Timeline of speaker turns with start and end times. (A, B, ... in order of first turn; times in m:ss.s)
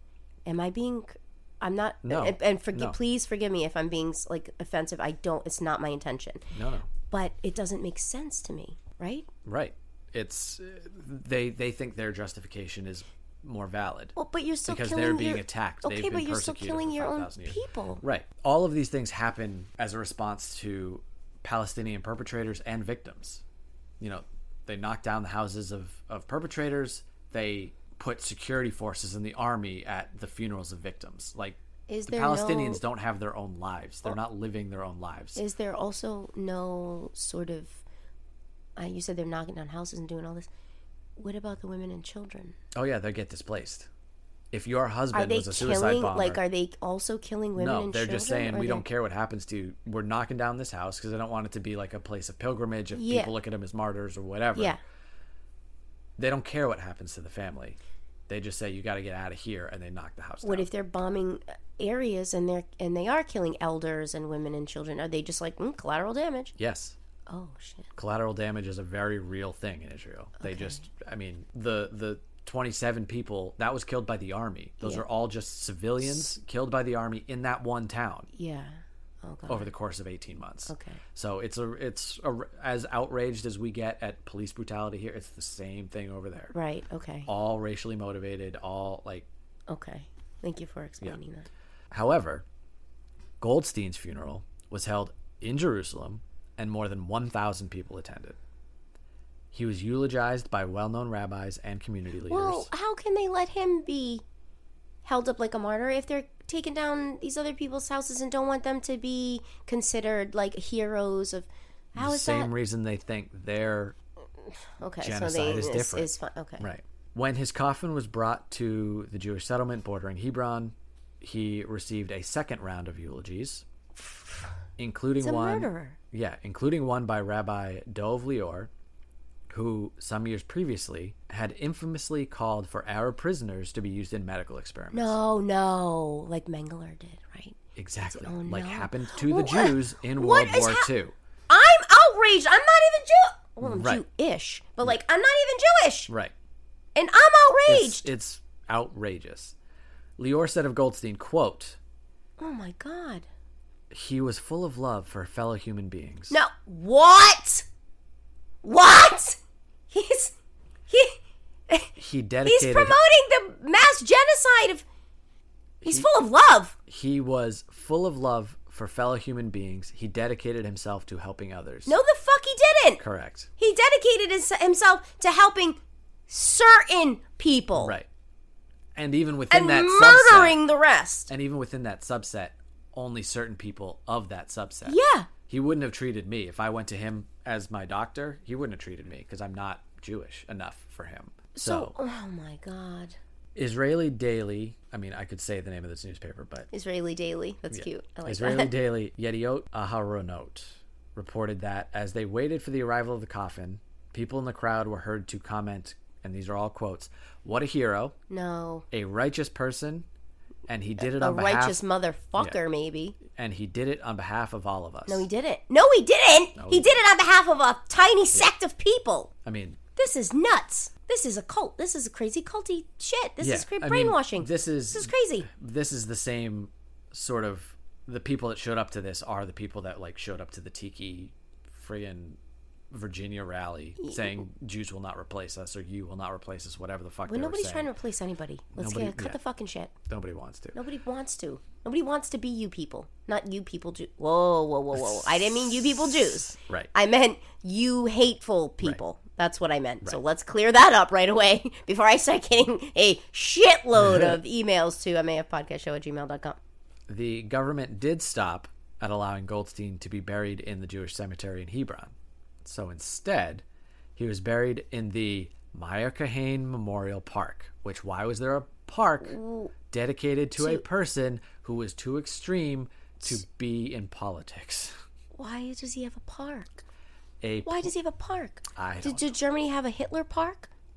0:00.4-0:06.4 A
0:02.0-0:03.0 B
0:06.5-0:06.9 B
0:07.1-0:09.3 A
0:09.4-0:23.4 B
0:14.2-0:18.0 A
0:24.0-0:35.4 B
0:31.9-0:32.8 A
0:35.4-0:37.8 A
0:38.8-0:40.5 A
0:41.2-0:42.6 A
0:42.7-0:43.9 B
0:44.5-0:46.4 B
0:45.1-0:48.9 A
0:47.6-0:54.8 B
0:52.9-0:53.3 A
0:56.2-0:57.8 B
0:58.3-1:00.7 B
1:00.4-1:06.5 A
1:06.6-1:07.0 B
1:07.3-1:07.9 A
1:08.0-1:18.3 B
1:10.4-1:10.8 A
1:18.3-1:19.7 A
1:19.5-1:26.5 B
1:20.7-1:21.0 A
1:26.5-1:27.3 A
1:27.3-1:29.3 B
1:29.7-1:31.5 A
1:31.9-1:32.4 B
1:33.4-1:38.4 B
1:39.5-1:42.7 B
1:42.3-1:44.2 A
1:45.0-1:52.5 A
1:52.0-1:54.0 B
1:54.8-1:56.7 A
1:55.0-2:03.6 B
2:04.0-2:04.5 A
2:04.8-2:08.7 B
2:05.2-2:06.0 A
2:09.5-2:15.2 B
2:14.9-2:17.6 A
2:17.8-2:21.2 B
2:18.1-2:20.9 A
2:21.5-2:26.1 A
2:23.6-2:24.0 B
2:26.1-2:26.3 B
2:27.0-2:28.1 A
2:27.7-2:29.6 B
2:30.2-2:31.8 B
2:32.4-2:33.3 A
2:33.9-2:36.4 B
2:36.3-2:37.7 A
2:38.6-2:39.4 A
2:39.9-2:40.4 A
2:40.9-2:41.2 A
2:42.0-2:43.0 B
2:42.4-2:44.9 A
2:45.8-2:46.1 B
2:45.8-2:46.8 A
2:46.9-2:52.0 B
2:51.9-2:53.0 A
2:53.0-2:53.5 B
2:53.6-2:58.0 A
2:57.8-2:58.1 B
2:59.0-3:00.6 B
2:59.5-3:01.3 A
3:01.3-3:12.0 B
3:04.8-3:05.3 A
3:11.6-3:13.2 A
3:13.6-3:16.7 B
3:16.7-3:18.7 A
3:17.7-3:28.2 B
3:28.3-3:28.9 A
3:28.9-3:30.1 B
3:30.7-3:31.8 B
3:31.0-3:33.2 A
3:33.2-3:35.3 B
3:35.1-3:39.3 A
3:36.6-3:37.0 B
3:39.4-3:39.8 B
3:40.0-3:45.5 A
3:43.4-3:52.4 B
3:52.9-3:57.9 B
3:54.0-3:54.4 A
3:57.3-3:59.9 A
3:58.8-3:59.4 B
4:00.0-4:00.8 B
4:00.8-4:16.6 A
4:05.0-4:06.9 B
4:14.0-4:14.4 B
4:17.1-4:22.1 B
4:22.6-4:23.6 B
4:24.2-4:35.0 B
4:29.2-4:29.7 A
4:30.6-4:30.8 A
4:35.4-4:36.8 A
4:37.4-4:37.9 B
4:37.6-4:40.7 A
4:38.8-4:39.3 B